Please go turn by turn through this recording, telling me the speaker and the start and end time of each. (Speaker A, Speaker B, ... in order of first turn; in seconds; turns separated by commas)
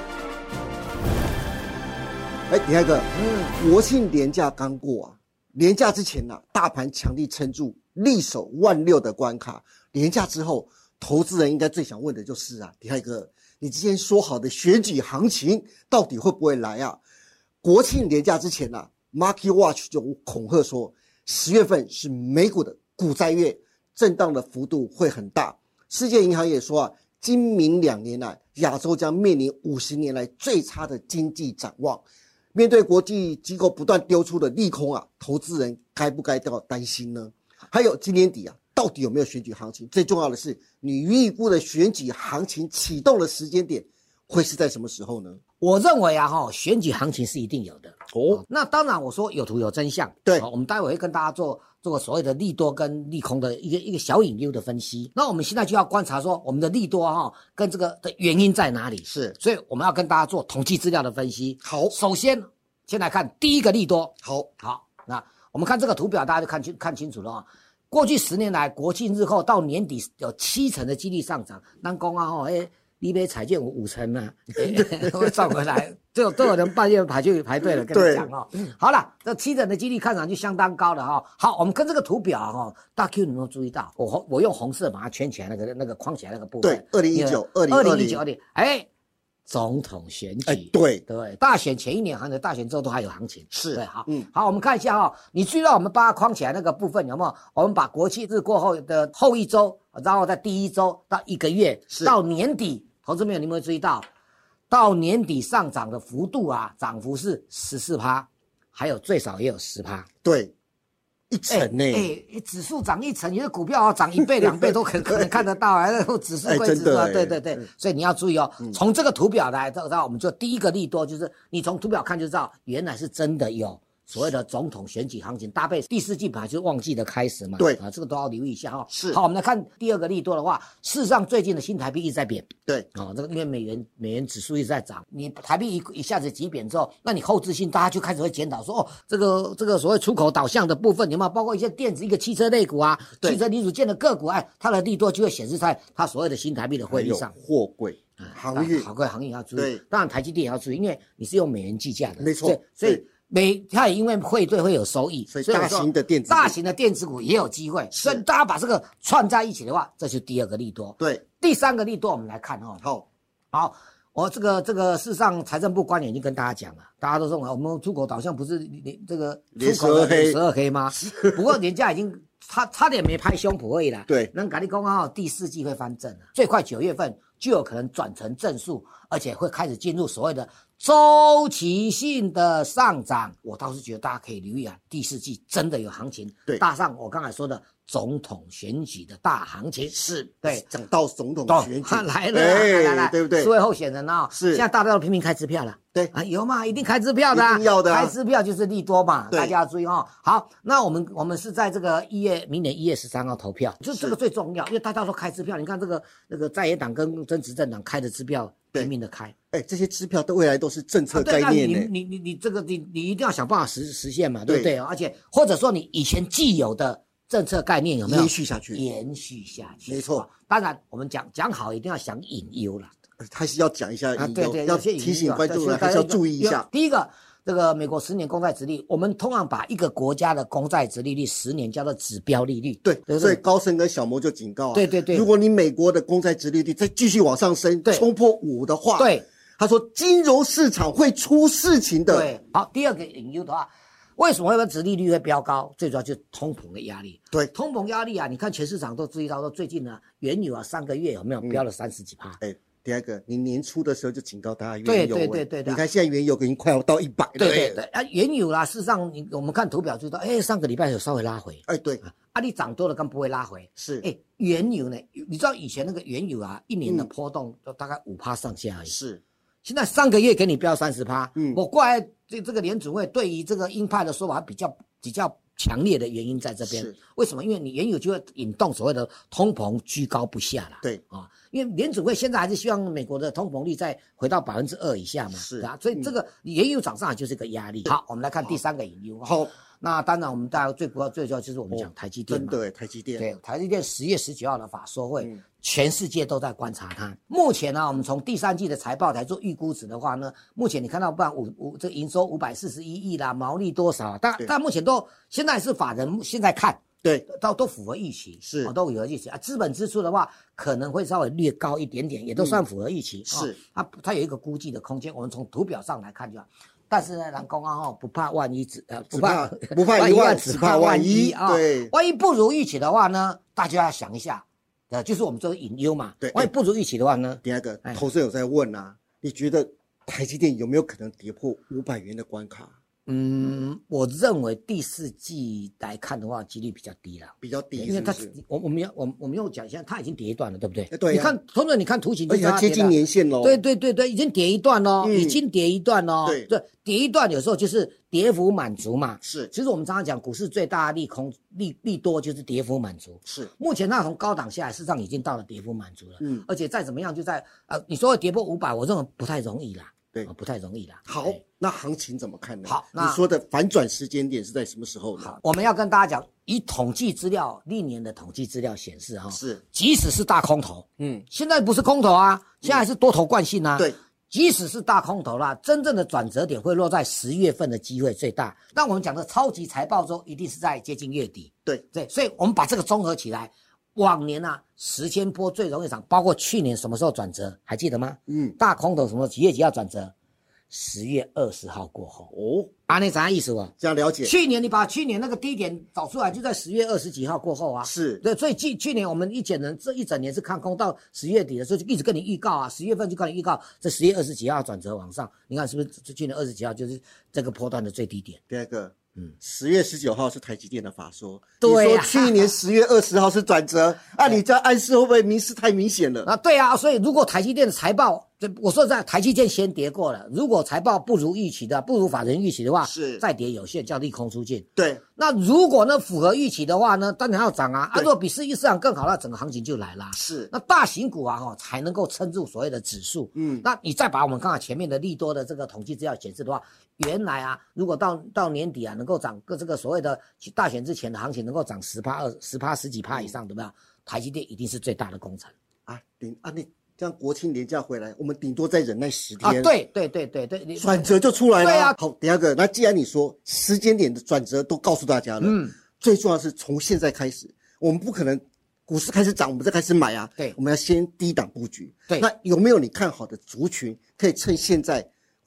Speaker A: 2.5-17.0, Speaker B: 3.1-3.5, Speaker A: 17.6-45.4, Speaker B: 45.6-88.9, Speaker A: 48.1-48.4, Speaker A: 59.0-59.4, Speaker A: 61.6-61.9, Speaker A: 64.2-64.5, Speaker A: 74.6-75.6, Speaker A: 77.8-78.3, Speaker A: 86.6-88.2, Speaker B: 89.5-104.1, Speaker A: 90.5-91.0, Speaker A: 93.5-94.3, Speaker A: 101.9-102.2, Speaker B: 104.7-110.1, Speaker A: 110.2-110.5, Speaker A: 111.3-112.1, Speaker B: 111.5-147.3, Speaker A: 114.2-115.4, Speaker A: 116.4-117.7, Speaker A: 128.9-129.2, Speaker A: 146.9-148.9, Speaker B: 148.2-162.8, Speaker A: 149.6-149.8, Speaker A: 152.2-153.0, Speaker A: 155.3-156.6, Speaker A: 157.9-158.2, Speaker B: 163.5-190.6, Speaker A: 169.5-170.4, Speaker A: 170.9-171.6, Speaker A: 189.9-193.5, Speaker B: 191.5-209.3, Speaker A: 194.3-194.6, Speaker A: 197.3-198.1, Speaker A: 209.5-211.9, Speaker B: 211.1-222.9, Speaker A: 214.5-214.7, Speaker A: 218.1-218.8, Speaker A: 219.9-220.2, Speaker A: 223.2-226.7, Speaker B: 224.2-233.4, Speaker A: 232.8-242.3, Speaker B: 234.7-235.3, Speaker B: 239.0-239.2, Speaker B: 242.1-252.4, Speaker A: 252.4-257.8, Speaker B: 254.8-255.8, Speaker B: 257.4-268.9, Speaker A: 261.7-262.0, Speaker A: 263.8-264.1, Speaker A: 266.8-267.1, Speaker A: 268.9-269.2, Speaker B: 269.6-292.6, Speaker A: 271.4-271.6, Speaker A: 276.6-276.9, Speaker A: 285.3-286.1, Speaker A: 289.2-289.5, Speaker A: 291.7-293.2, Speaker B: 293.2-328.0, Speaker A: 308.4-308.7, Speaker A: 312.3-312.6, Speaker A: 313.3-313.6, Speaker A: 319.1-321.9, Speaker A: 326.2-326.5, Speaker A: 327.4-332.7, Speaker B: 333.1-361.4, Speaker A: 337.4-338.3, Speaker A: 340.9-341.4, Speaker A: 342.3-343.6, Speaker A: 345.0-345.4, Speaker A: 349.2-349.5, Speaker A: 356.2-356.4, Speaker A: 361.1-365.4, Speaker B: 362.6-363.2, Speaker B: 365.2-390.1, Speaker A: 369.3-369.6, Speaker A: 371.0-371.2, Speaker A: 388.3-388.6, Speaker B: 390.7-392.3, Speaker A: 392.3-392.8, Speaker B: 392.9-408.4, Speaker A: 393.8-394.3, Speaker A: 397.8-398.2, Speaker A: 408.5-416.3, Speaker B: 411.6-412.5, Speaker B: 416.2-424.6, Speaker A: 422.8-423.2, Speaker A: 424.8-425.0, Speaker B: 425.2-445.5, Speaker A: 430.1-430.5, Speaker A: 433.4-433.6, Speaker A: 445.9-449.7, Speaker B: 449.4-451.9, Speaker A: 450.8-465.1, Speaker B: 455.4-455.7